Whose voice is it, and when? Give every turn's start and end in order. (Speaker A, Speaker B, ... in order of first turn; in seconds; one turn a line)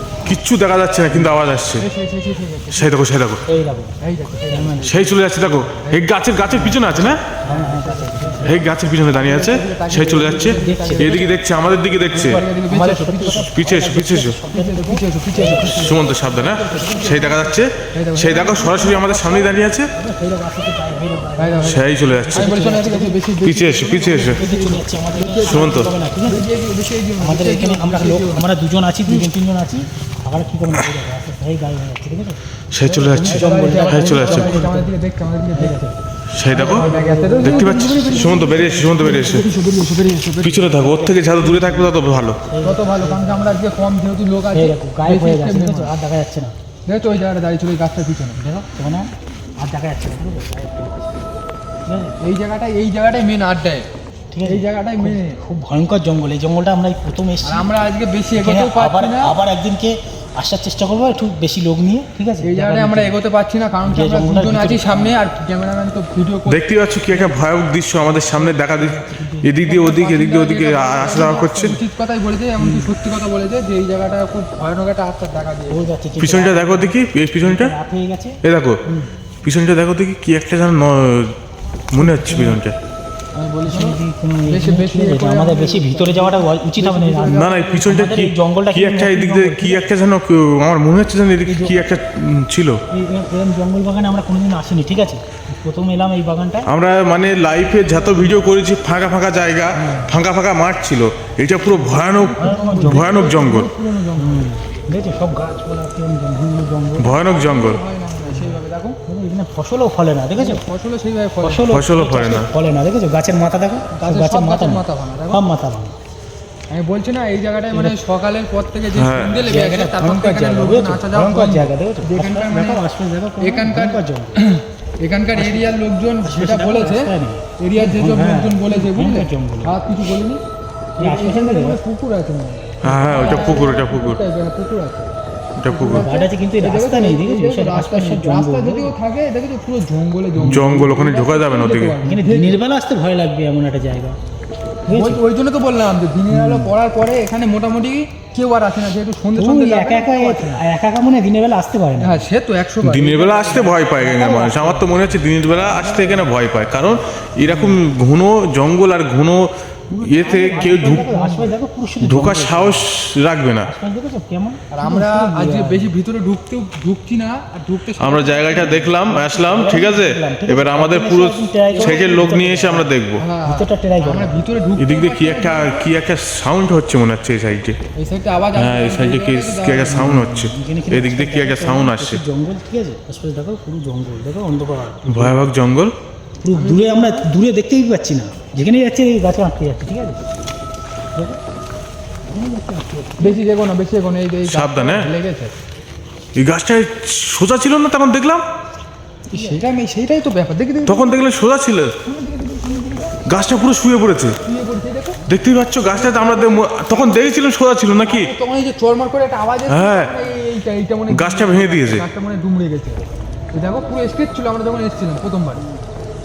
Speaker A: 0.2-1.9
Speaker B: 1.1-1.4
Speaker C: 1.8-2.9
Speaker A: 2.7-3.4
Speaker B: 3.5-3.9
Speaker C: 4.0-6.8
Speaker B: 4.5-5.2
Speaker A: 4.8-7.2
Speaker B: 6.5-8.7
Speaker C: 7.4-13.5
Speaker A: 8.4-12.4
Speaker B: 10.0-11.4
Speaker B: 12.1-17.6
Speaker A: 13.3-14.4
Speaker C: 14.5-19.6
Speaker A: 15.7-19.9
Speaker B: 19.9-23.2
Speaker C: 21.4-28.5
Speaker A: 21.6-22.6
Speaker A: 23.4-24.4
Speaker B: 23.9-26.5
Speaker A: 25.4-25.9
Speaker B: 27.2-34.9
Speaker A: 32.7-34.5
Speaker C: 33.1-35.9
Speaker B: 35.5-36.0
Speaker A: 36.3-36.9
Speaker B: 36.5-40.0
Speaker C: 36.5-40.7
Speaker A: 37.4-39.5
Speaker A: 40.4-42.4
Speaker B: 40.5-43.6
Speaker C: 42.6-45.9
Speaker B: 44.5-46.5
Speaker C: 46.9-48.4
Speaker B: 48.4-51.2
Speaker B: 51.9-52.2
Speaker C: 52.2-53.9
Speaker B: 54.3-57.7
Speaker C: 54.4-55.4
Speaker C: 57.4-59.4
Speaker B: 58.4-63.2
Speaker C: 62.4-67.3
Speaker B: 63.8-65.1
Speaker A: 66.5-71.8
Speaker B: 68.0-69.7
Speaker C: 69.6-75.9
Speaker B: 70.7-71.8
Speaker B: 72.6-72.9
Speaker B: 75.7-79.0
Speaker A: 76.2-77.7
Speaker A: 78.4-78.8
Speaker A: 79.4-81.3
Speaker A: 81.9-82.8
Speaker B: 81.9-82.6
Speaker C: 83.3-88.0
Speaker B: 83.7-89.8
Speaker A: 87.3-92.8
Speaker B: 91.4-91.8
Speaker B: 92.9-96.7
Speaker A: 96.7-103.7
Speaker C: 97.4-98.5
Speaker B: 99.7-100.2
Speaker C: 101.7-104.5
Speaker B: 102.4-103.3
Speaker B: 104.2-107.2
Speaker A: 107.0-107.8
Speaker C: 107.1-109.0
Speaker B: 108.3-110.6
Speaker C: 110.3-111.7
Speaker B: 111.4-116.0
Speaker A: 111.7-112.5
Speaker C: 113.9-115.4
Speaker C: 116.7-122.8
Speaker B: 117.7-118.0
Speaker A: 118.9-119.3
Speaker B: 119.4-124.3
Speaker C: 123.4-130.4
Speaker B: 125.3-129.7
Speaker B: 131.0-131.8
Speaker C: 131.0-135.1
Speaker A: 132.8-134.2
Speaker B: 132.9-133.7
Speaker A: 135.6-136.1
Speaker C: 135.7-142.6
Speaker B: 135.8-138.9
Speaker B: 140.4-140.8
Speaker A: 140.4-142.0
Speaker B: 142.0-144.2
Speaker B: 144.8-145.2
Speaker C: 144.9-150.6
Speaker B: 146.3-146.7
Speaker B: 149.3-152.2
Speaker C: 152.0-154.4
Speaker A: 152.8-161.1
Speaker B: 153.6-157.8
Speaker C: 159.9-161.5
Speaker B: 159.9-162.9
Speaker A: 162.0-163.7
Speaker B: 163.6-165.9
Speaker C: 164.7-168.9
Speaker A: 168.0-173.2
Speaker B: 168.6-174.4
Speaker C: 171.7-172.4
Speaker C: 173.2-175.9
Speaker A: 174.8-177.8
Speaker C: 177.9-180.1
Speaker A: 178.5-182.2
Speaker B: 179.8-185.6
Speaker A: 185.1-185.9
Speaker B: 186.4-190.2
Speaker C: 186.5-187.2
Speaker B: 192.3-193.4
Speaker C: 193.2-195.5
Speaker A: 194.5-195.1
Speaker A: 196.3-198.4
Speaker C: 199.3-201.1
Speaker B: 199.3-199.6
Speaker A: 200.8-201.9
Speaker C: 202.0-203.2
Speaker A: 203.2-204.3
Speaker C: 204.4-205.2
Speaker A: 205.3-208.3
Speaker C: 205.8-207.3
Speaker C: 208.0-215.6
Speaker A: 209.7-210.1
Speaker A: 211.1-212.0
Speaker B: 215.6-215.8